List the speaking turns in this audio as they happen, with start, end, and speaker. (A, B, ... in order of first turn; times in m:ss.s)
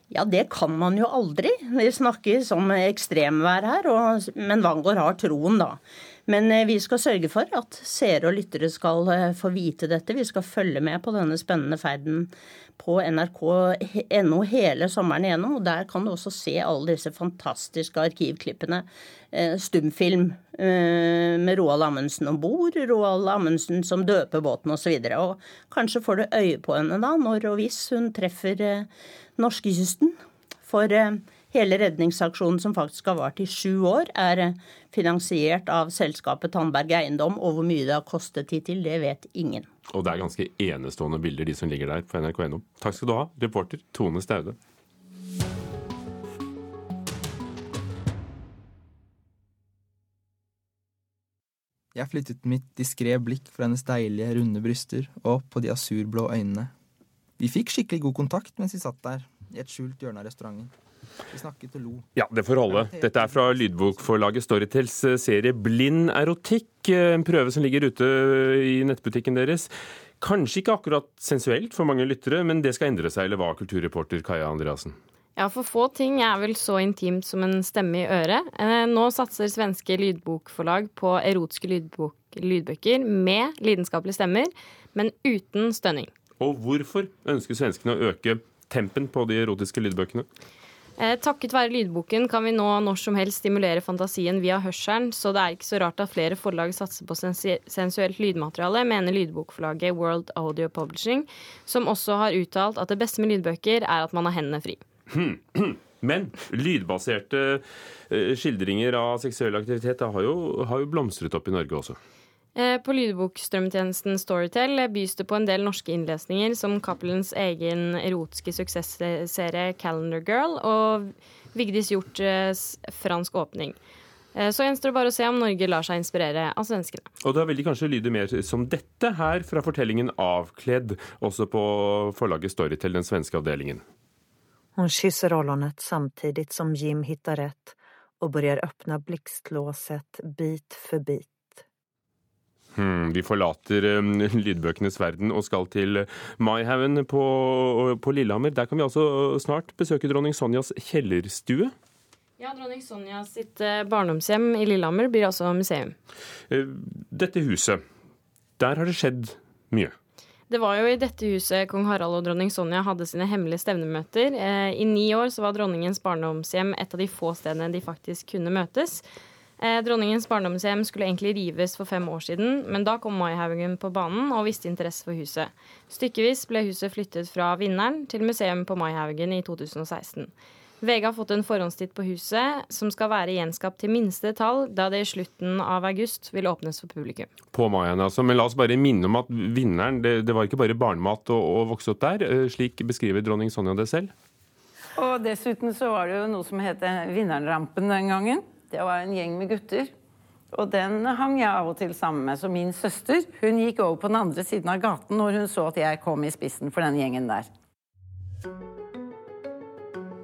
0:00.1-0:30.1 A
0:30.6-0:39.7 A
0:39.9-0:44.6 B
0:52.0-0:56.7 C
0:57.4-1:00.7 C
1:01.3-1:02.1 C
1:02.2-1:15.0 B
1:02.7-1:04.2 C
1:15.4-1:26.1 D
1:26.4-1:30.3 B
1:31.0-1:44.8 D
1:45.1-1:52.0 B
1:52.6-2:03.8 D
2:04.3-2:07.1 D
2:07.2-2:13.8 B
2:14.8-2:21.6 E
2:22.8-2:31.7 B
2:32.4-2:36.0 D
2:36.5-2:37.8 B
2:38.6-2:40.0 B
2:40.5-2:49.0 D
2:49.6-3:07.3 D
3:07.5-3:14.1 B
3:15.0-3:19.9 F
3:20.5-3:27.5 F